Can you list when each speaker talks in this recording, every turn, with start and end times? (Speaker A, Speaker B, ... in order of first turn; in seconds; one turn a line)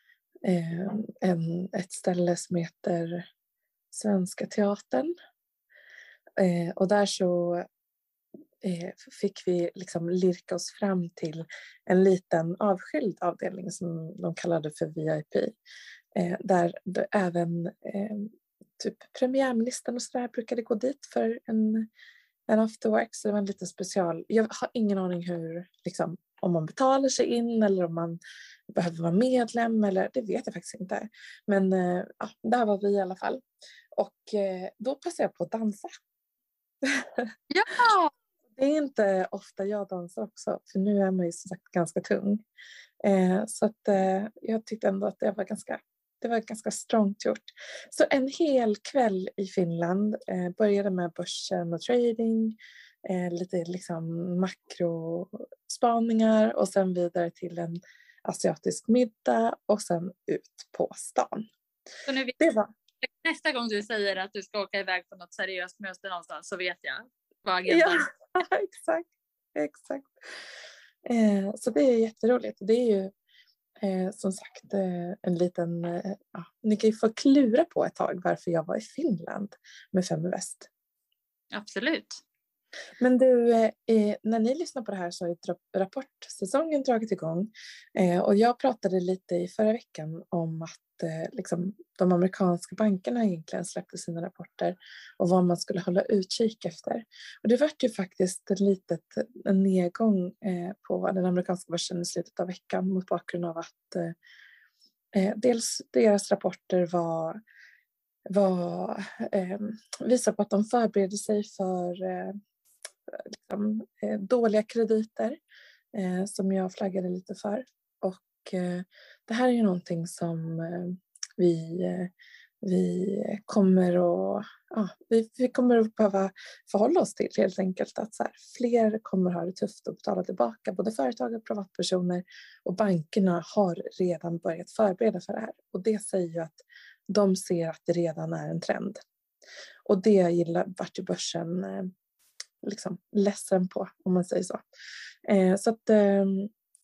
Speaker A: 0.4-3.3
Speaker A: 3.9-5.1
Speaker A: 6.4-7.7
Speaker A: 8.6-15.5
Speaker A: 16.1-21.9
Speaker A: 22.5-28.2
Speaker A: 28.7-33.4
Speaker A: 34.0-35.9
Speaker A: 36.8-37.3
Speaker B: 37.5-38.1
Speaker A: 38.6-42.4
Speaker A: 43.0-61.5
Speaker B: 62.1-62.4
Speaker A: 62.4-62.7
Speaker B: 63.0-68.1
Speaker A: 67.7-70.2
Speaker A: 71.1-73.1
Speaker A: 73.8-80.7
Speaker B: 81.5-82.2
Speaker A: 83.0-104.2
Speaker A: 105.1-107.4
Speaker A: 108.3-112.4
Speaker A: 113.1-115.4
Speaker A: 115.9-139.0
Speaker A: 139.9-141.9
Speaker A: 142.6-144.6
Speaker A: 145.3-146.5